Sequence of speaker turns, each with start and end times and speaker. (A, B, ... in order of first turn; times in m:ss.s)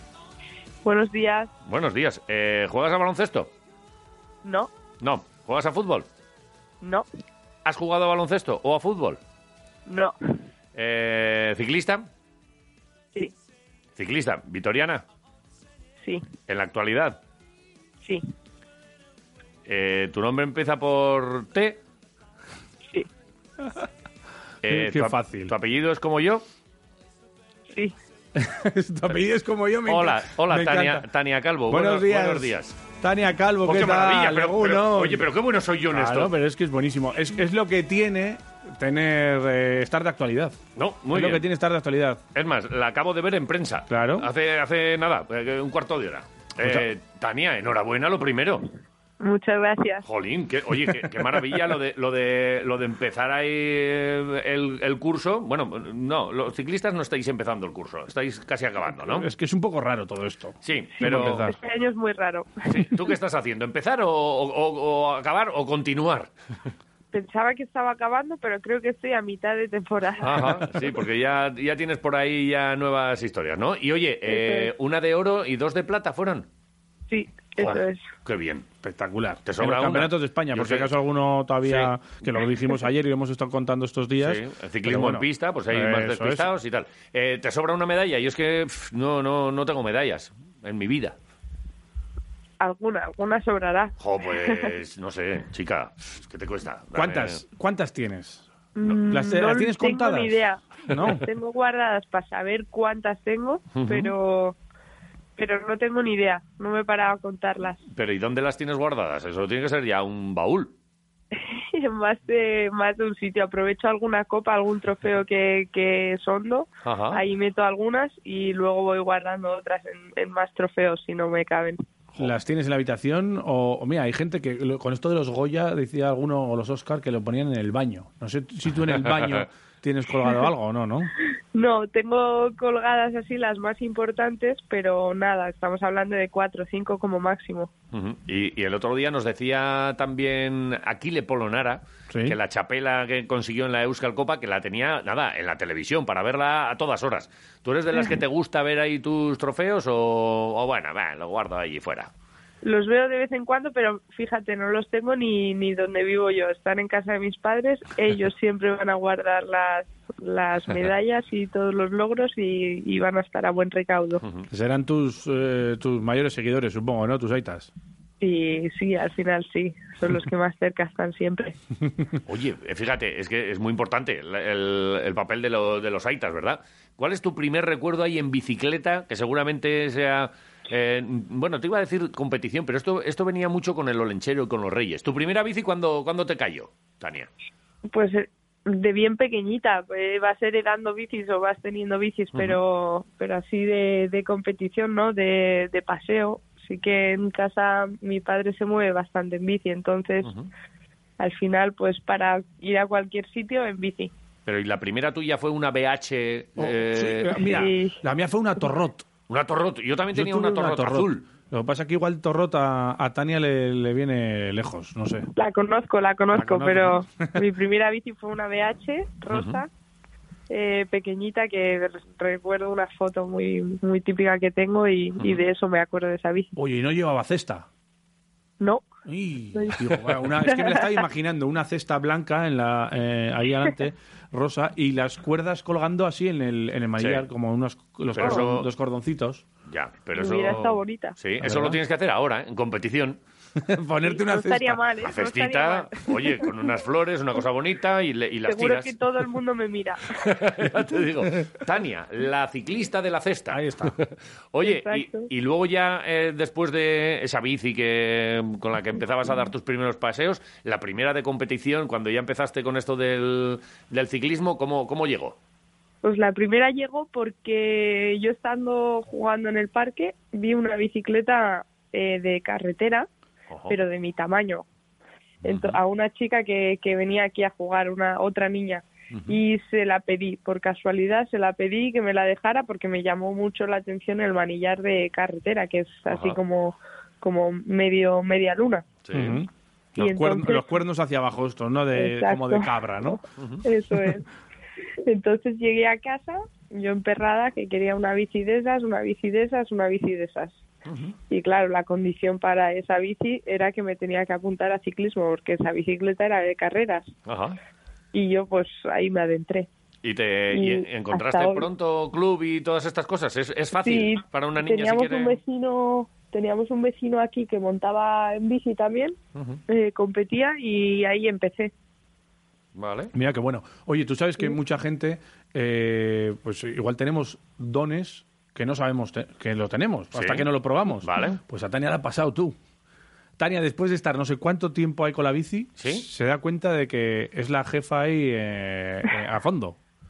0:00.8-0:01.5 A
0:01.7-0:03.5 B
0:04.4-0:04.7 A
0:05.0-0:06.1 B
0:06.8-0:07.1 A
0:07.6-0:09.2 B
0:09.9-0:10.2 A
0:10.8-0:12.1 B
0:14.0-0:15.0 B
0:16.5-0:17.2 B
0:19.7-0:21.8 B
0:24.6-0:26.4 B
0:24.7-0:25.5 C
0:28.4-0:31.1 C
0:29.9-0:32.8 B
0:31.7-0:35.2 C
0:33.6-0:36.3 B
0:35.9-0:40.6 C
0:40.8-0:41.4 B
0:41.1-0:42.2 C
0:42.3-0:48.7 B
0:43.9-0:44.3 C
0:49.2-0:50.1 A
0:50.0-0:59.3 B
0:59.1-1:01.6 C
1:00.6-1:01.4 B
1:01.0-1:02.9 A
1:02.7-1:06.3 B
1:07.1-1:10.8 A
1:10.2-1:16.5 B
1:14.3-1:14.7 A
1:17.1-1:18.1 A
1:17.6-1:18.7 B
1:18.8-1:26.5 C
1:19.4-1:20.9 B
1:21.6-1:21.9 B
1:24.2-1:31.2 B
1:32.6-1:34.7 A
1:34.0-1:37.4 B
1:36.9-1:38.5 C
1:38.8-1:44.6 A
1:39.1-1:41.2 C
1:43.7-1:44.1 B
1:45.4-1:47.8 A
1:47.9-1:50.7 B
1:51.3-2:01.8 A
1:56.8-1:57.2 B
2:02.2-2:11.1 C
2:08.9-2:09.4 B
2:11.5-2:17.7 A
2:17.9-2:32.1 B
2:22.1-2:22.4 C
2:32.6-2:44.2 A
2:44.5-2:47.7 C
2:48.2-2:51.6 A
2:52.3-3:07.3 B
3:07.8-3:20.3 A
3:12.3-3:12.6 B
3:20.2-3:20.5 B
3:21.2-3:24.1 A
3:24.5-3:27.5 B
3:26.6-3:29.1 C
3:27.5-3:28.0 A
3:29.3-3:31.2 B
3:30.1-3:35.3 C
3:35.4-3:39.7 A
3:36.3-3:37.4 C
3:39.3-3:39.6 B
3:40.5-3:46.5 A
3:46.6-3:47.7 C
3:48.6-3:48.9 A
3:49.1-3:59.4 C
3:49.5-3:51.0 A
3:57.0-3:57.3 B
3:58.1-3:58.7 B
3:59.7-4:03.2 B
4:00.2-4:01.2 A
4:01.4-4:01.8 C
4:03.6-4:04.8 C
4:04.0-4:06.5 A
4:05.0-4:08.9 B
4:08.4-4:10.2 A
4:10.1-4:25.4 B
4:13.5-4:14.0 C
4:14.6-4:15.3 A
4:26.0-4:33.1 A
4:33.5-4:33.8 B
4:33.7-4:34.6 A
4:35.4-4:35.8 B
4:35.4-4:48.8 A
4:39.1-4:39.4 B
4:46.1-4:46.4 B
4:49.0-4:49.4 B
4:49.1-4:53.2 C
4:50.0-4:50.7 A
4:51.9-4:54.3 A
4:53.4-4:53.6 B
4:55.0-5:00.6 A
5:00.9-5:01.2 B
5:01.3-5:07.1 A
5:07.3-5:07.6 B
5:08.1-5:09.7 A
5:10.0-5:15.4 B
5:10.5-5:11.7 A
5:13.8-5:19.2 A
5:19.4-5:19.6 B
5:19.7-5:21.7 A
5:22.8-5:23.1 B
5:23.1-5:32.6 C
5:30.1-5:30.5 B
5:31.0-5:31.4 B
5:33.4-5:39.8 C
5:35.8-5:36.1 B